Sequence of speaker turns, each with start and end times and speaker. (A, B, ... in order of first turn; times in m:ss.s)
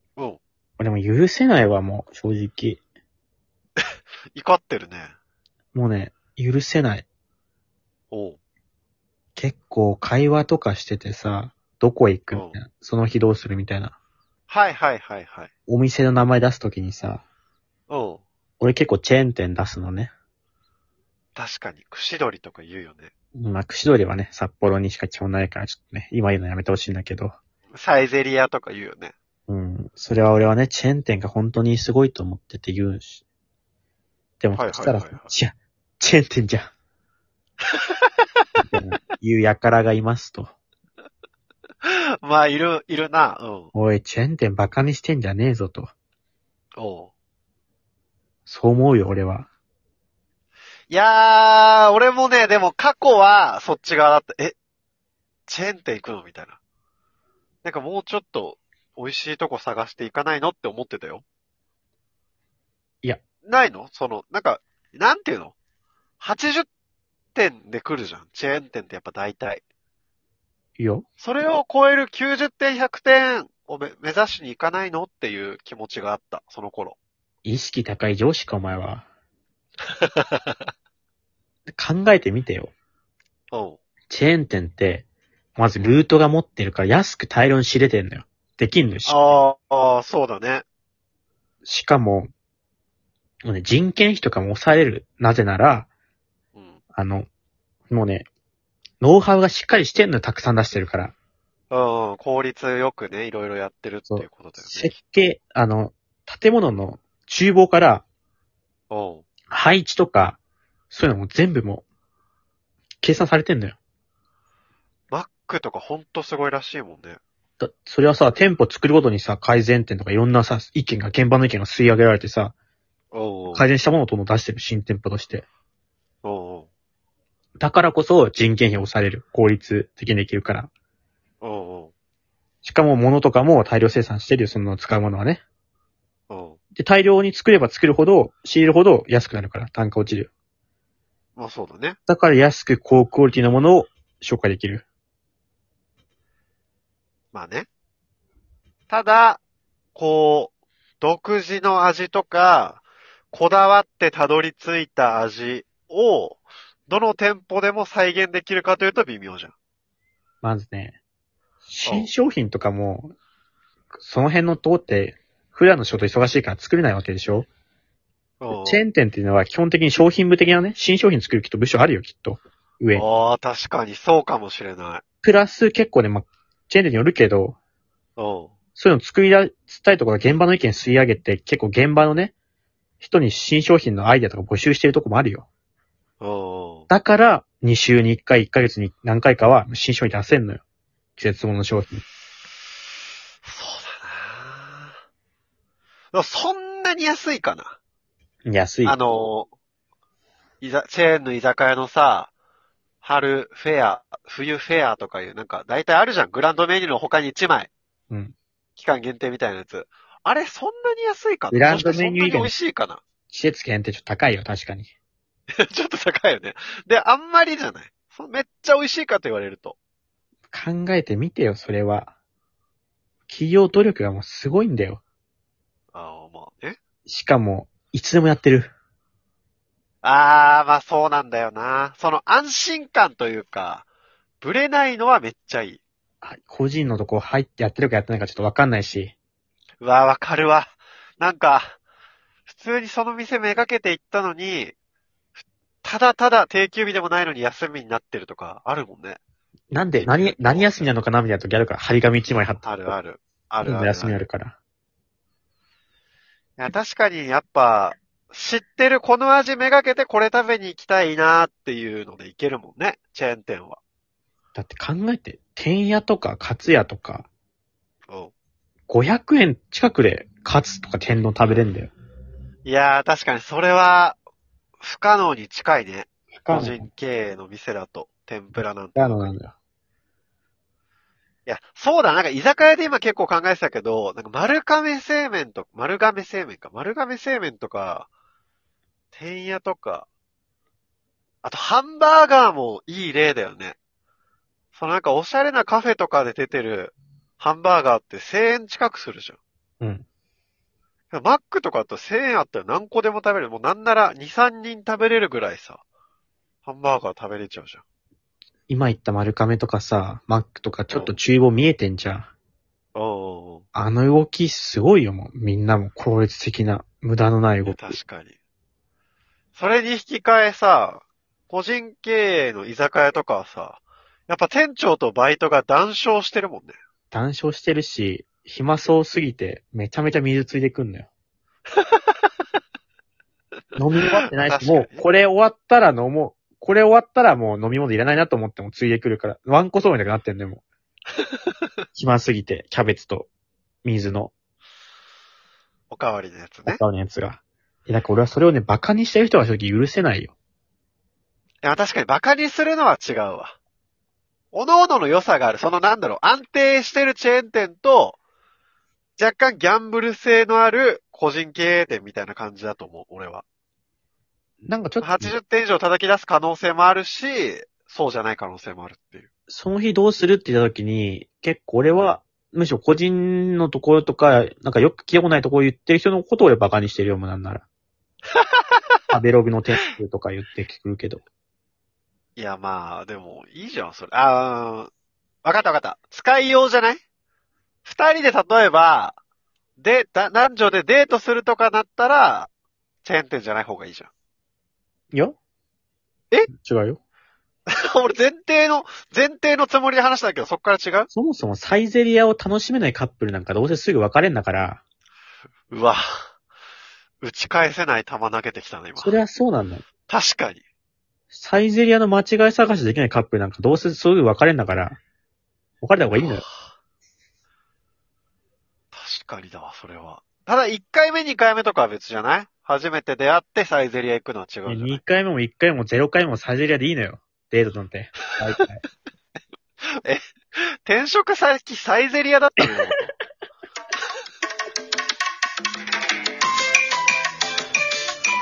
0:00.8-0:02.8 A
0:03.8-0:05.1 B
0:05.7-0:07.0 A
0:08.1-0:08.4 B
0:09.4-0:13.9 A
0:12.3-0:12.6 B
0:14.5-0:15.5 B
0:15.7-0:17.2 A
0:17.9-0:18.2 B
0:18.6-0:20.1 A
0:21.4-0:23.1 B
0:23.4-0:27.4 A
0:27.7-0:29.1 B
0:29.5-0:33.2 A
0:34.4-0:36.7 A
0:34.5-0:35.3 B
0:37.6-0:38.6 B
0:38.6-0:40.5 A
0:41.8-0:43.7 B
0:43.7-0:45.9 A
0:46.8-0:47.1 B
0:48.4-0:49.5 A
0:50.9-0:54.5 B
0:55.5-0:56.6 B
0:57.6-1:01.2 B
1:03.4-1:05.5 B
1:06.2-1:06.7 B
1:07.3-1:09.6 B
1:10.8-1:11.0 A
1:11.2-1:17.0 B
1:17.4-1:19.0 A
1:19.9-1:20.6 B
1:21.8-1:22.7 A
1:23.5-1:23.8 B
1:24.1-1:29.1 A
1:29.0-1:30.6 B
1:31.6-1:32.3 A
1:33.4-1:35.9 A
1:36.5-1:36.8 B
1:36.9-1:37.3 A
1:37.9-1:38.3 A
1:39.0-1:41.1 A
1:41.7-1:45.0 B
1:44.1-1:48.0 A
1:48.9-1:49.2 B
1:49.5-1:50.4 A
1:50.9-1:51.8 A
1:53.0-1:53.8 A
1:55.1-1:57.2 B
1:57.6-2:02.5 A
2:03.1-2:03.6 B
2:03.5-2:05.4 A
2:06.2-2:06.7 B
2:07.6-2:10.7 A
2:11.4-2:11.9 B
2:12.6-2:15.4 A
2:16.3-2:16.6 B
2:16.7-2:20.3 A
2:21.4-2:22.0 B
2:22.1-2:24.8 A
2:27.3-2:27.7 B
2:28.9-2:29.4 B
2:29.9-2:39.5 B
2:40.4-2:41.0 A
2:41.7-2:43.1 A
2:41.8-2:42.1 B
2:43.9-2:47.5 A
2:48.4-2:48.8 B
2:48.5-2:53.0 A
2:52.9-2:55.0 B
2:55.2-2:57.6 A
2:58.2-2:58.5 B
2:58.8-3:02.3 A
3:03.0-3:05.5 A
3:06.2-3:06.9 B
3:06.9-3:10.6 A
3:11.2-3:12.0 A
3:13.4-3:15.0 B
3:16.1-3:17.8 B
3:18.5-3:19.0 A
3:18.8-3:19.5 B
3:20.6-3:22.3 B
3:23.0-3:27.7 B
3:28.1-3:28.3 A
3:28.8-3:33.0 B
3:31.5-3:32.5 A
3:33.3-3:34.9 A
3:35.5-3:39.8 B
3:40.5-3:42.1 A
3:43.3-3:45.0 A
3:45.9-3:46.8 B
3:47.1-3:48.7 A
3:50.0-3:53.8 B
3:54.4-3:55.8 B
3:56.2-3:59.1 A
3:59.8-4:01.8 B
4:02.5-4:04.7 B
4:05.8-4:09.2 B
4:09.7-4:12.7 A
4:10.0-4:10.9 B
4:12.6-4:14.2 B
4:13.6-4:14.6 A
4:16.6-4:23.8 B
4:24.5-4:27.3 A
4:28.9-4:31.9 A
4:32.6-4:34.2 B
4:34.8-4:39.3 B
4:36.4-4:36.9 A
4:38.9-4:39.5 A
4:41.4-4:48.1 B
4:49.1-4:50.1 B
4:51.4-4:53.8 B
4:54.7-4:59.4 B
5:01.1-5:05.8 B
5:06.6-5:07.8 B
5:08.7-5:12.3 A
5:10.9-5:11.2 B
5:12.9-5:13.6 B
5:13.7-5:18.0 A
5:17.6-5:18.4 B
5:19.5-5:26.7 B
5:27.1-5:31.1 A
5:31.7-5:32.3 B
5:33.8-5:40.6 A
5:34.0-5:35.0 B
5:41.2-5:41.7 B
5:41.9-5:43.3 A
5:43.8-5:44.3 A
5:45.9-5:46.8 B
5:46.6-5:50.3 A
5:51.6-5:53.6 B
5:54.5-5:58.2 B
5:59.2-6:03.4 B
6:04.7-6:05.4 A
6:05.0-6:09.3 B
6:09.5-6:17.6 A
6:18.3-6:19.0 B
6:19.1-6:21.2 A
6:22.4-6:24.9 B
6:25.4-6:27.0 B
6:27.8-6:29.2 B
6:29.8-6:32.5 B
6:33.0-6:34.1 B
6:36.5-6:37.0 A
6:37.7-6:41.1 B
6:41.1-6:44.8 A
6:45.7-6:46.3 B
6:47.2-6:49.2 B
6:49.0-6:49.8 A
6:50.1-6:50.6 B
6:51.3-6:55.0 A
6:55.8-6:56.4 A
6:56.1-6:56.6 B
6:58.9-7:05.0 B
7:04.6-7:08.8 A
7:10.8-7:13.1 B